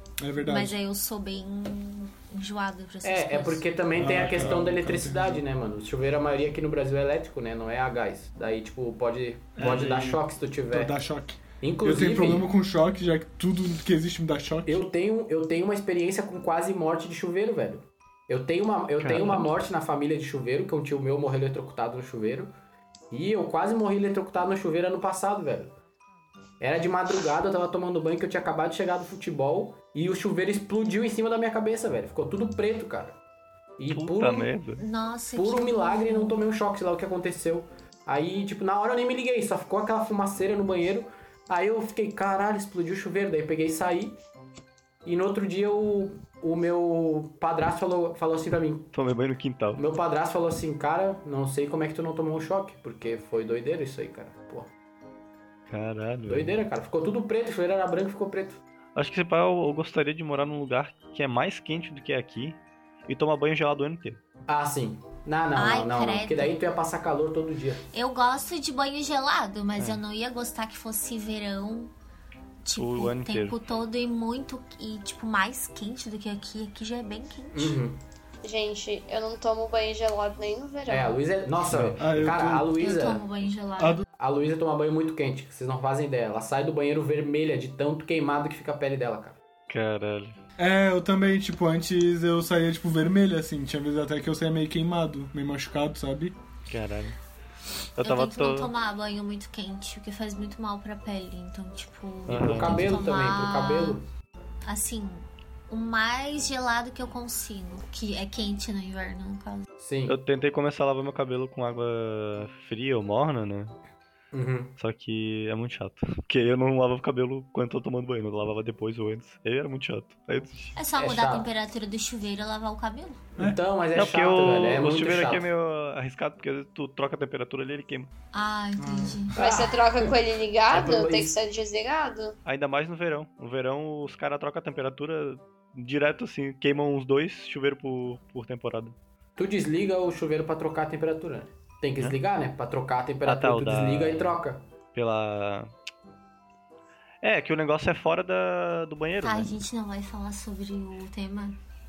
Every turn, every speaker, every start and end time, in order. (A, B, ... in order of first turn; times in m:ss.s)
0:00.2-0:00.8 A
0:00.4-0:03.6 B
0:03.0-0:10.9 C
0:04.0-0:05.4 A
0:09.6-0:10.2 D
0:10.7-0:14.8 A
0:11.6-0:12.5 C
0:14.6-0:22.5 C
0:19.0-0:19.5 D
0:23.1-0:25.7 C
0:26.6-0:33.2 C
0:33.8-0:34.5 C
0:33.9-0:34.8 D
0:34.8-0:36.4 B
0:35.3-0:44.2 C
0:45.0-0:48.9 C
0:48.9-0:49.8 D
0:49.8-0:54.7 C
0:55.7-0:56.6 D
0:56.3-0:58.6 C
0:59.0-1:04.2 D
1:04.5-1:07.8 C
1:05.6-1:06.5 B
1:07.9-1:11.9 B
1:09.8-1:10.0 D
1:12.6-1:17.8 B
1:12.8-1:13.6 D
1:17.5-1:18.0 C
1:18.4-1:21.2 E
1:20.9-1:23.2 C
1:21.7-1:22.7 A
1:22.8-1:24.0 B
1:23.8-1:24.0 A
1:24.2-1:29.4 C
1:29.7-1:30.4 D
1:30.6-1:36.4 A
1:36.7-1:37.2 D
1:38.0-1:38.7 D
1:38.0-1:44.0 B
1:42.3-1:43.0 D
1:42.3-1:44.0 C
1:44.6-1:49.6 B
1:49.8-1:50.2 C
1:50.0-1:53.7 D
1:54.3-1:54.7 C
1:54.8-2:00.8 D
2:00.7-2:03.2 B
2:01.0-2:01.5 C
2:03.4-2:05.5 C
2:03.9-2:08.1 D
2:08.3-2:09.3 B
2:08.8-2:09.2 A
2:09.3-2:12.3 E
2:09.4-2:10.1 C
2:10.7-2:11.3 C
2:12.4-2:18.9 D
2:19.4-2:24.6 C
2:23.2-2:24.3 D
2:24.9-2:25.7 D
2:27.2-2:29.6 D
2:29.2-2:31.6 B